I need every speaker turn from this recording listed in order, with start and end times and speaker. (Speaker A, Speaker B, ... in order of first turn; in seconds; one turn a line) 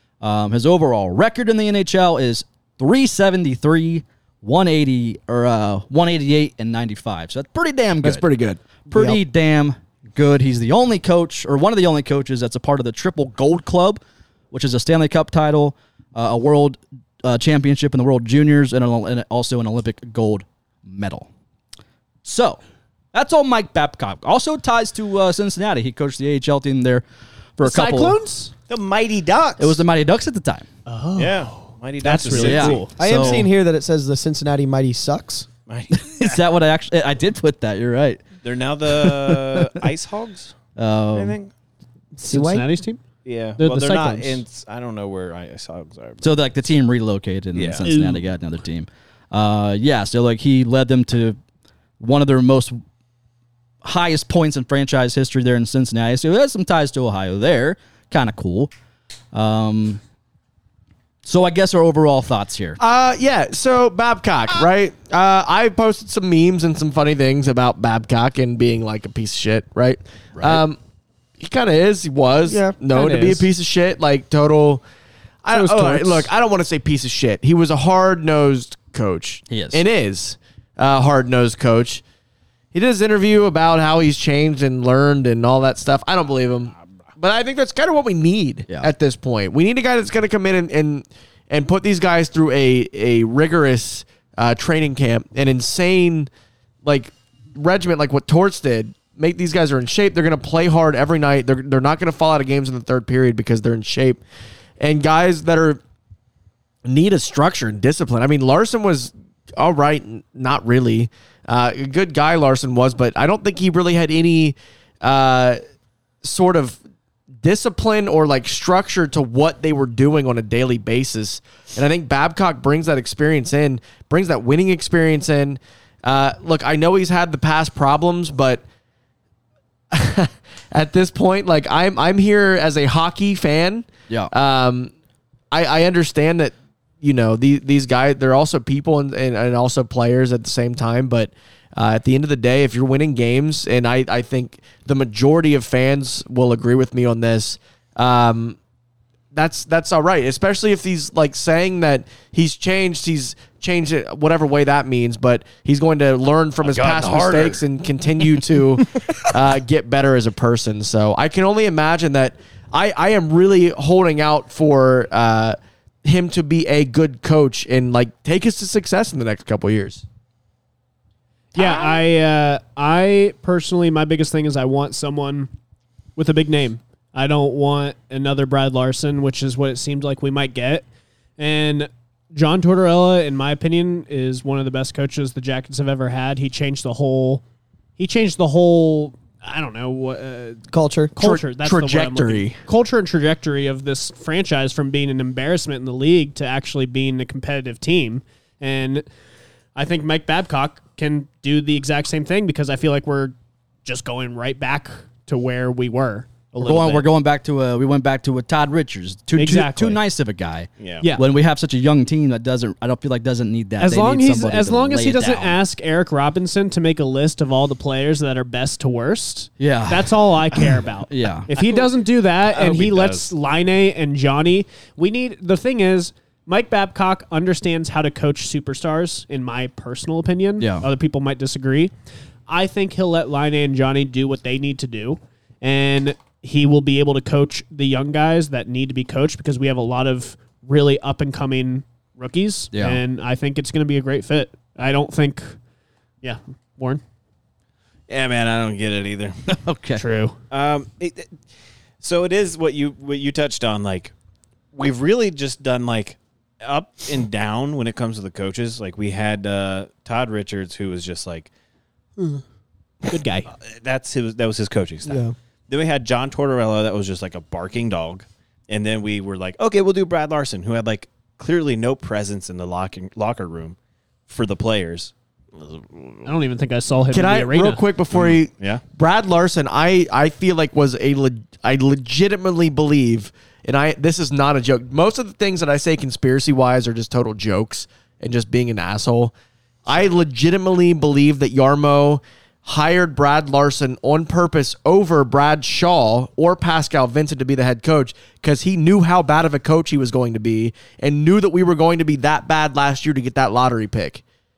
Speaker A: 0.2-8.3
Speaker B: 8.0-9.2
Speaker A: 8.9-21.3
Speaker A: 22.2-22.6
Speaker A: 23.1-27.0
Speaker A: 27.6-28.2
Speaker C: 27.6-28.5
Speaker D: 28.7-29.8
Speaker A: 29.6-30.7
Speaker C: 30.9-32.9
Speaker D: 31.2-32.9
Speaker A: 32.3-33.5
Speaker E: 33.0-35.5
Speaker D: 35.7-36.4
Speaker A: 35.9-38.2
Speaker D: 38.4-40.5
Speaker A: 38.9-39.8
Speaker A: 40.8-41.4
Speaker D: 41.1-41.5
Speaker E: 42.2-42.7
Speaker C: 42.2-43.0
Speaker D: 43.2-46.3
Speaker C: 43.6-44.4
Speaker A: 46.2-51.4
Speaker D: 47.5-47.9
Speaker C: 47.9-48.2
Speaker A: 52.0-52.8
Speaker A: 53.8-58.7
Speaker A: 59.3-60.0
Speaker A: 61.2-62.8
Speaker B: 62.8-70.8
Speaker A: 70.3-70.6
Speaker B: 71.4-74.8
Speaker E: 72.5-72.8
Speaker C: 72.9-73.5
Speaker B: 75.4-82.0
Speaker C: 75.5-76.3
Speaker A: 79.5-79.8
Speaker B: 82.7-96.3
Speaker B: 96.8-104.2
Speaker B: 104.8-105.8
Speaker B: 106.9-115.6
Speaker B: 116.2-116.8
Speaker B: 117.4-128.6
Speaker B: 129.9-134.9
Speaker B: 135.5-148.6
Speaker B: 149.3-170.0
Speaker D: 156.6-157.6
Speaker C: 171.5-175.5
Speaker C: 176.2-180.9
Speaker C: 181.4-187.4
Speaker C: 188.0-190.6
Speaker E: 190.7-191.2
Speaker C: 191.2-199.1
Speaker B: 191.2-192.6
Speaker C: 199.8-207.1
Speaker A: 206.6-215.6
Speaker C: 209.3-210.0
Speaker C: 213.8-231.9
Speaker A: 219.6-221.5
Speaker D: 221.6-221.9
Speaker D: 222.5-223.3
Speaker A: 230.6-230.9
Speaker C: 232.5-245.6
Speaker A: 242.7-243.0
Speaker C: 246.2-247.0
Speaker D: 248.1-249.3
Speaker A: 249.5-250.0
Speaker C: 250.0-250.4
Speaker D: 250.5-251.3
Speaker D: 252.0-254.1
Speaker D: 254.7-261.5
Speaker C: 263.1-263.5
Speaker D: 263.6-273.8
Speaker E: 265.1-265.3
Speaker D: 274.3-276.3
Speaker C: 276.2-277.8
Speaker B: 277.1-289.3
Speaker D: 278.1-278.8
Speaker B: 289.9-304.2